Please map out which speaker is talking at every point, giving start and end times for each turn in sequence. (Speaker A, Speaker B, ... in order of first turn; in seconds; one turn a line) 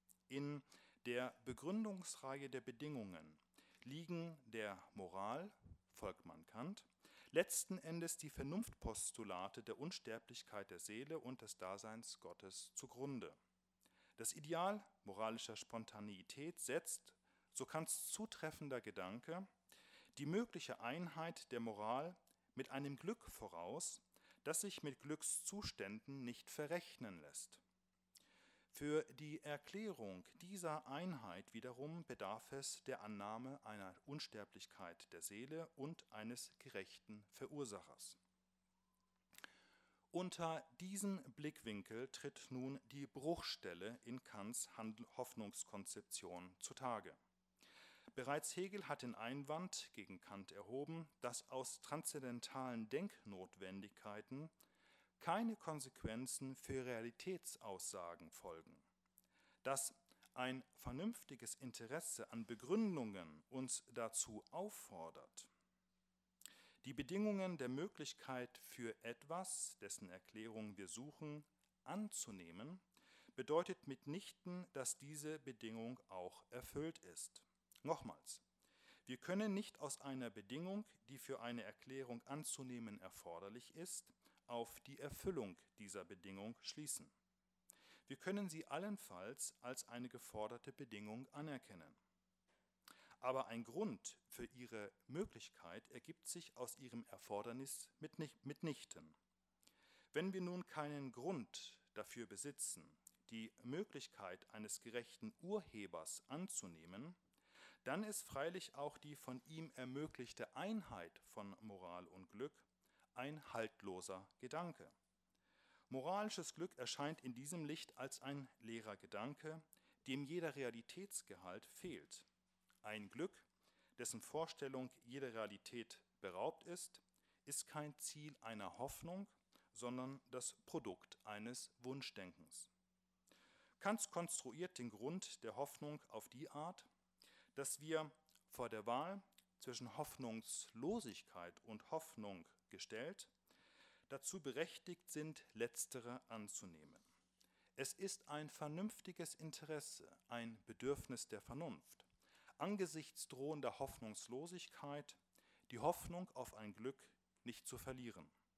Speaker A: 0.3-13.4
Speaker A: 14.2-19.5
Speaker A: 20.2-27.6
Speaker A: 28.7-38.2
Speaker A: 40.1-47.2
Speaker A: 48.1-54.5
Speaker A: 55.2-58.8
Speaker A: 59.6-65.5
Speaker A: 66.8-72.8
Speaker A: 73.4-78.4
Speaker A: 79.1-87.1
Speaker A: 88.1-92.0
Speaker A: 93.2-99.2
Speaker A: 100.1-107.2
Speaker A: 107.8-114.9
Speaker A: 115.9-122.3
Speaker A: 122.8-123.5
Speaker A: 124.0-132.7
Speaker A: 133.8-136.9
Speaker A: 137.6-143.3
Speaker A: 144.1-147.0
Speaker A: 147.8-152.1
Speaker A: 152.6-158.3